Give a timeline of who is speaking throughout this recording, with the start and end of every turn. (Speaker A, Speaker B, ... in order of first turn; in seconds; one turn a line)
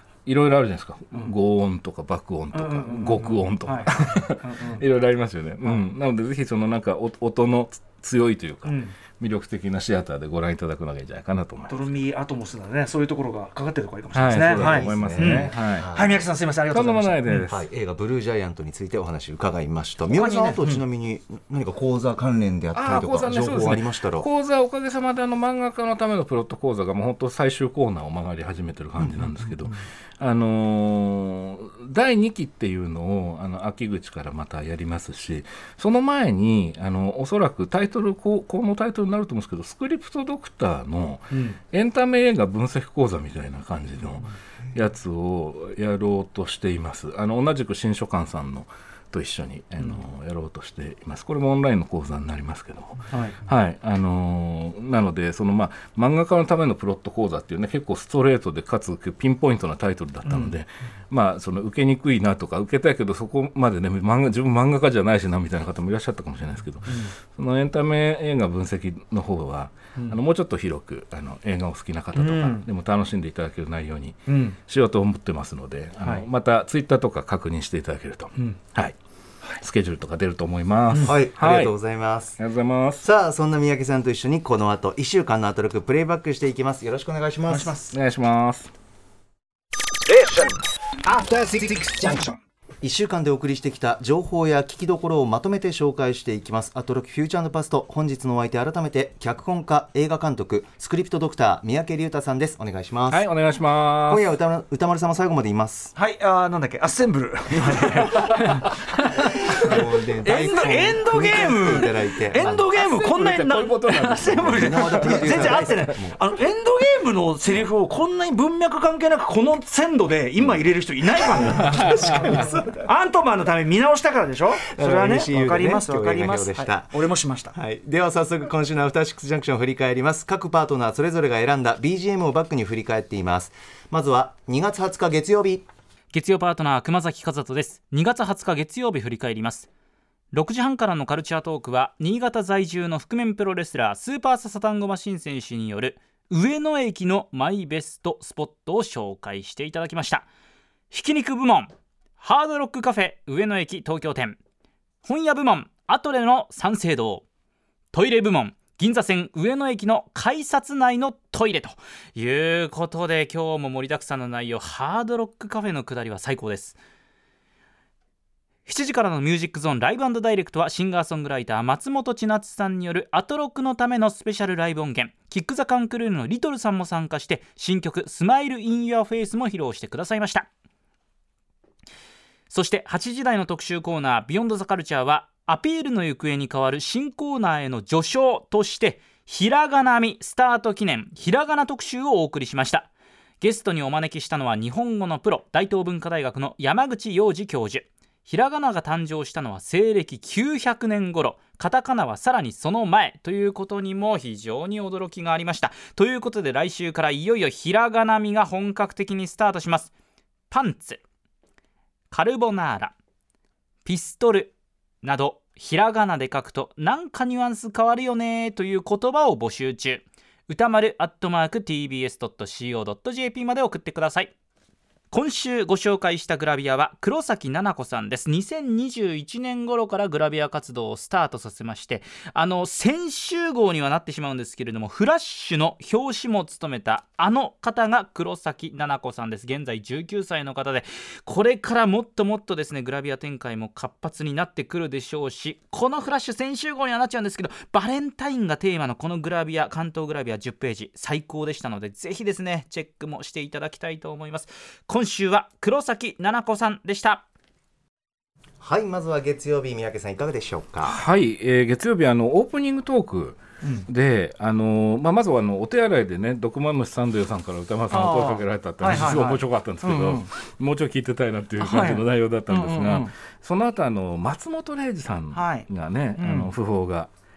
Speaker A: 0.2-11.9
Speaker B: 2.5-4.8
Speaker B: 8.6-8.9
Speaker B: 11.7-17.5
Speaker A: 14.1-15.9
Speaker C: 14.4-16.2
Speaker A: 16.7-17.6
Speaker C: 17.3-24.3
Speaker B: 20.1-20.8
Speaker A: 22.7-78.9
Speaker C: 29.0-29.7
Speaker B: 41.3-41.6
Speaker B: 53.1-53.4
Speaker B: 60.2-60.5
Speaker B: 66.8-67.1
Speaker B: 72.1-72.7
Speaker B: 74.3-74.6
Speaker B: 76.0-76.2
Speaker A: 79.6-81.7
Speaker C: 81.0-82.4
Speaker A: 82.4-83.0
Speaker C: 83.0-87.7
Speaker B: 87.5-87.9
Speaker A: 87.9-88.7
Speaker C: 90.1-90.5
Speaker C: 91.1-92.3
Speaker C: 92.8-103.3
Speaker A: 103.1-104.2
Speaker C: 104.0-105.9
Speaker B: 105.9-121.7
Speaker A: 107.7-108.5
Speaker C: 109.5-112.6
Speaker A: 112.4-115.8
Speaker C: 114.4-116.2
Speaker A: 121.5-122.4
Speaker C: 121.6-122.8
Speaker B: 122.8-127.5
Speaker C: 124.7-127.0
Speaker C: 127.5-135.7
Speaker D: 136.1-139.7
Speaker D: 140.3-150.2
Speaker D: 150.9-154.4
Speaker D: 155.0-157.2
Speaker D: 157.9-166.8
Speaker D: 168.7-180.5
Speaker D: 182.5-192.9
Speaker D: 193.4-209.9
Speaker D: 210.5-211.0
Speaker D: 212.1-212.9
Speaker D: 213.8-224.3
Speaker D: 225.1-257.2
Speaker C: 258.6-261.0
Speaker A: 260.9-277.1
Speaker B: 263.6-263.9
Speaker B: 267.9-270.3
Speaker B: 271.6-273.1
Speaker B: 275.3-276.5